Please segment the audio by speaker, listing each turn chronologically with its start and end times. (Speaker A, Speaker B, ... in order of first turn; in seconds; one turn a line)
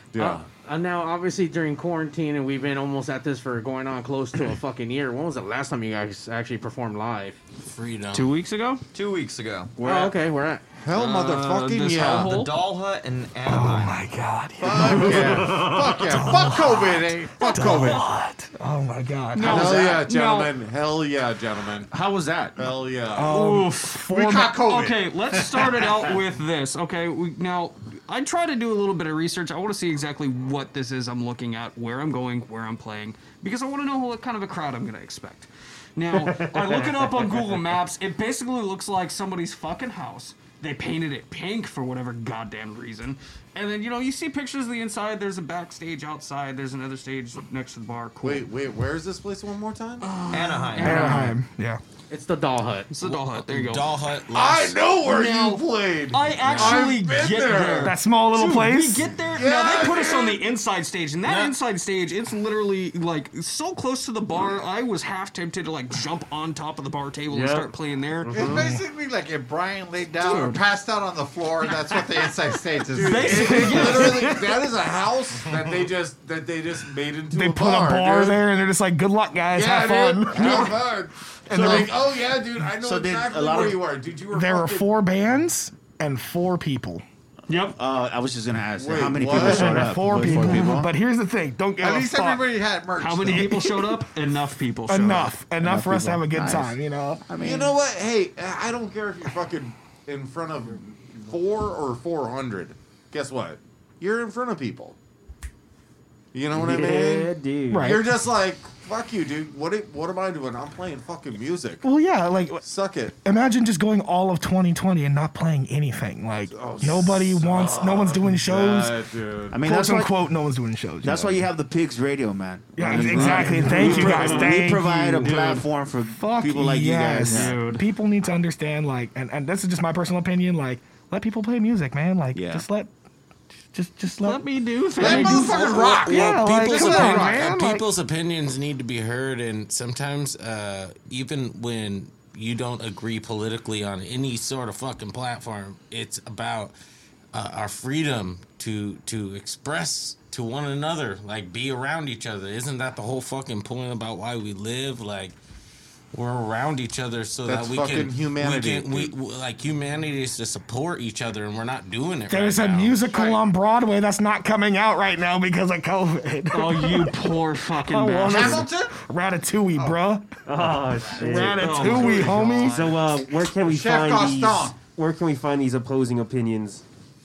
Speaker A: 0.1-0.5
Speaker B: 0.2-7.4
Speaker C: 7.7-8.3
Speaker D: 8.1-8.8
Speaker E: 8.9-9.7
Speaker F: 9.8-10.1
Speaker B: 9.8-10.6
Speaker A: 10.8-12.3
Speaker D: 10.9-12.6
Speaker E: 12.2-14.0
Speaker G: 13.4-19.7
Speaker A: 14.6-18.0
Speaker H: 15.1-16.9
Speaker D: 19.3-20.6
Speaker A: 19.4-21.9
Speaker F: 19.5-20.0
Speaker F: 21.9-22.7
Speaker A: 22.6-23.4
Speaker G: 23.1-24.7
Speaker D: 23.2-24.0
Speaker A: 24.0-24.9
Speaker D: 24.6-48.5
Speaker I: 36.1-37.7
Speaker A: 48.2-50.1
Speaker D: 50.0-51.3
Speaker E: 50.3-51.3
Speaker G: 50.8-51.8
Speaker B: 50.8-51.3
Speaker B: 52.1-52.9
Speaker D: 52.9-53.9
Speaker C: 53.0-54.8
Speaker A: 54.3-58.0
Speaker D: 55.0-68.5
Speaker C: 56.5-56.9
Speaker G: 57.8-59.1
Speaker A: 59.2-60.4
Speaker C: 61.2-61.5
Speaker I: 67.3-68.7
Speaker H: 68.3-74.1
Speaker G: 68.4-68.8
Speaker A: 72.9-78.4
Speaker D: 73.0-74.6
Speaker G: 77.3-80.7
Speaker A: 79.5-84.9
Speaker F: 80.3-80.8
Speaker G: 81.5-82.0
Speaker F: 81.5-81.9
Speaker F: 82.8-83.8
Speaker G: 84.3-87.0
Speaker D: 87.5-87.8
Speaker F: 87.7-90.9
Speaker A: 88.8-90.1
Speaker G: 89.3-92.5
Speaker H: 91.8-93.6
Speaker D: 93.0-95.4
Speaker G: 93.3-93.7
Speaker G: 94.9-97.3
Speaker F: 95.6-97.7
Speaker A: 97.3-105.0
Speaker A: 106.3-111.8
Speaker I: 106.5-108.0
Speaker G: 107.7-108.2
Speaker G: 111.8-112.6
Speaker A: 112.6-113.1
Speaker G: 113.1-119.0
Speaker A: 116.5-119.6
Speaker F: 119.5-120.1
Speaker G: 119.6-121.5
Speaker F: 121.0-127.6
Speaker G: 122.7-132.9
Speaker D: 123.8-124.4
Speaker D: 127.3-127.8
Speaker F: 132.3-132.7
Speaker G: 133.7-134.4
Speaker D: 134.2-136.1
Speaker A: 135.0-137.3
Speaker H: 135.0-136.1
Speaker G: 135.0-137.9
Speaker C: 136.0-146.7
Speaker C: 147.3-155.3
Speaker C: 156.1-163.0
Speaker A: 157.4-159.1
Speaker G: 162.3-167.3
Speaker D: 166.5-168.7
Speaker G: 168.1-172.9
Speaker H: 168.1-168.9
Speaker I: 170.4-176.8
Speaker H: 171.2-173.0
Speaker D: 171.3-172.7
Speaker H: 173.6-174.8